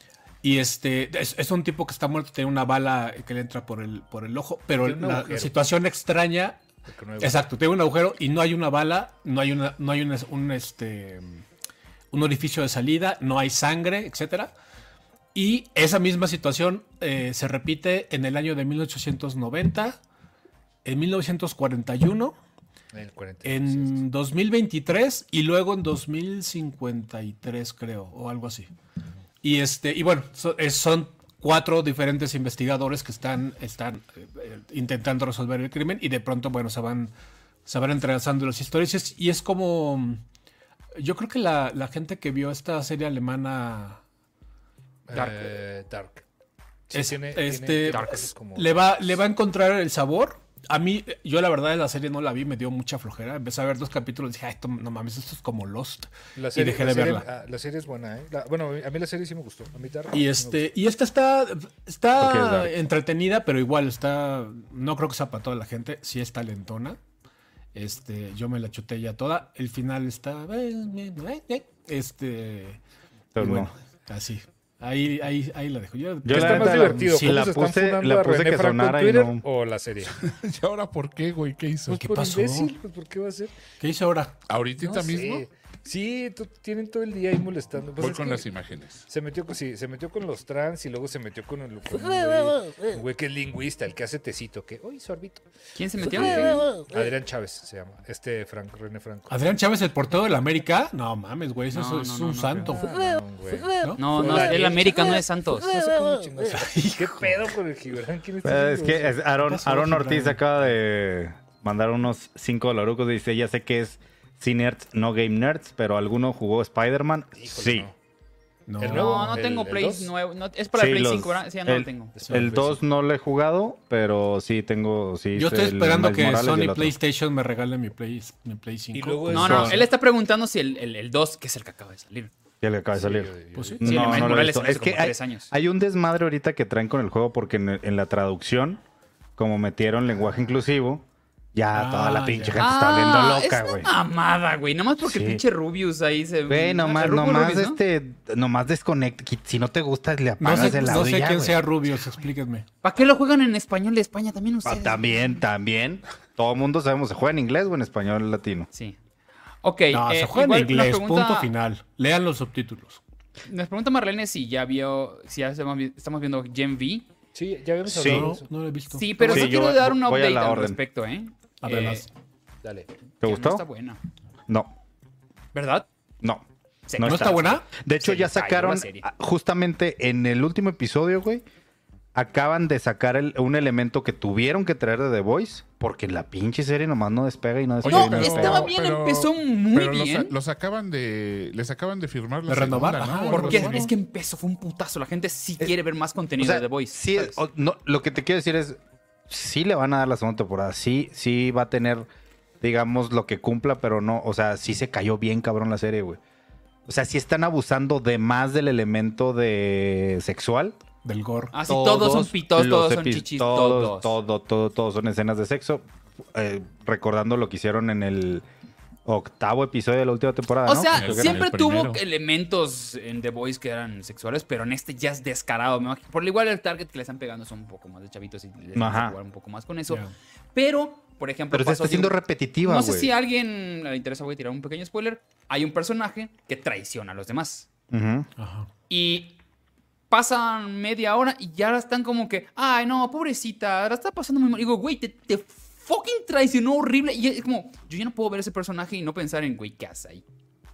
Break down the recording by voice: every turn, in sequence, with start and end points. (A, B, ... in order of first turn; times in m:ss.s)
0:00.4-0:06.6 A
0:04.8-0:05.6 B
0:06.9-0:07.5 B
0:07.2-0:11.4 A
0:12.1-0:14.5 A
0:15.3-0:20.0 A
0:20.8-0:22.4 A
0:22.9-0:24.0 B
0:23.4-0:28.7 A
0:29.4-0:37.1 A
0:37.7-0:40.2 A
0:41.0-0:44.0 A
0:45.1-0:46.2 B
0:45.1-0:45.5 C
0:46.9-0:48.8 B
0:46.9-0:57.3 A
0:47.9-0:48.3 C
0:56.4-1:00.7 B
1:00.1-1:07.0 A
1:02.2-1:02.7 D
1:07.7-1:12.8 A
1:13.4-1:13.7 D
1:13.4-1:17.6 A
1:16.2-1:19.4 D
1:16.3-1:20.2 B
1:20.2-1:22.0 E
1:21.9-1:22.7 A
1:21.9-1:23.6 B
1:23.8-1:24.4 A
1:24.5-1:25.5 E
1:24.8-1:28.5 B
1:28.0-1:29.1 E
1:29.1-1:35.5 B
1:35.8-1:36.7 C
1:36.0-1:39.4 B
1:39.3-1:42.8 A
1:41.7-1:42.8 C
1:42.7-1:49.3 B
1:43.8-1:44.6 A
1:44.0-1:45.9 C
1:46.5-1:47.5 A
1:48.4-1:57.9 D
1:49.3-1:50.5 A
1:57.4-1:58.0 B
1:58.7-1:59.4 A
1:58.8-2:00.1 B
1:58.8-2:02.1 C
2:00.7-2:07.0 D
2:02.2-2:02.8 B
2:02.3-2:02.6 A
2:05.3-2:09.9 A
2:08.9-2:09.9 B
2:09.3-2:12.3 C
2:09.4-2:09.8 D
2:12.6-2:18.8 D
2:12.9-2:14.5 B
2:13.6-2:14.3 A
2:13.8-2:15.5 C
2:19.4-2:23.9 D
2:21.7-2:22.6 A
2:22.6-2:27.8 C
2:25.0-2:25.4 D
2:26.5-2:31.6 D
2:30.4-2:32.7 A
2:30.5-2:31.1 C
2:32.8-2:35.4 C
2:34.6-2:38.7 D
2:38.7-2:39.0 C
2:39.6-2:41.5 C
2:39.9-2:43.0 A
2:43.5-2:47.1 C
2:47.4-2:48.5 B
2:47.9-2:49.5 A
2:47.9-2:48.3 D
2:48.9-2:52.1 C
2:49.2-2:50.8 D
2:51.6-2:52.1 A
2:52.6-2:52.9 B
2:53.2-2:53.6 D
2:53.2-2:54.0 C
2:54.5-2:54.7 D
2:55.5-2:55.9 C
2:56.9-2:59.1 C
2:57.0-3:01.4 D
2:57.0-2:57.7 A
3:02.1-3:08.7 D
3:07.8-3:13.9 E
3:07.8-3:10.4 C
3:12.5-3:13.9 A
3:13.3-3:17.4 C
3:16.4-3:22.1 D
3:22.6-3:26.2 D
3:26.9-3:30.8 D
3:31.0-3:31.6 A
3:31.5-3:34.2 C
3:31.7-3:38.4 D
3:39.1-3:41.5 D
3:40.7-3:57.7 C
3:40.9-3:42.0 E
3:48.8-3:49.2 D
3:51.5-3:53.1 D
3:57.9-3:58.3 D
3:58.4-3:58.7 A
3:58.9-3:59.4 C
4:00.1-4:10.2 C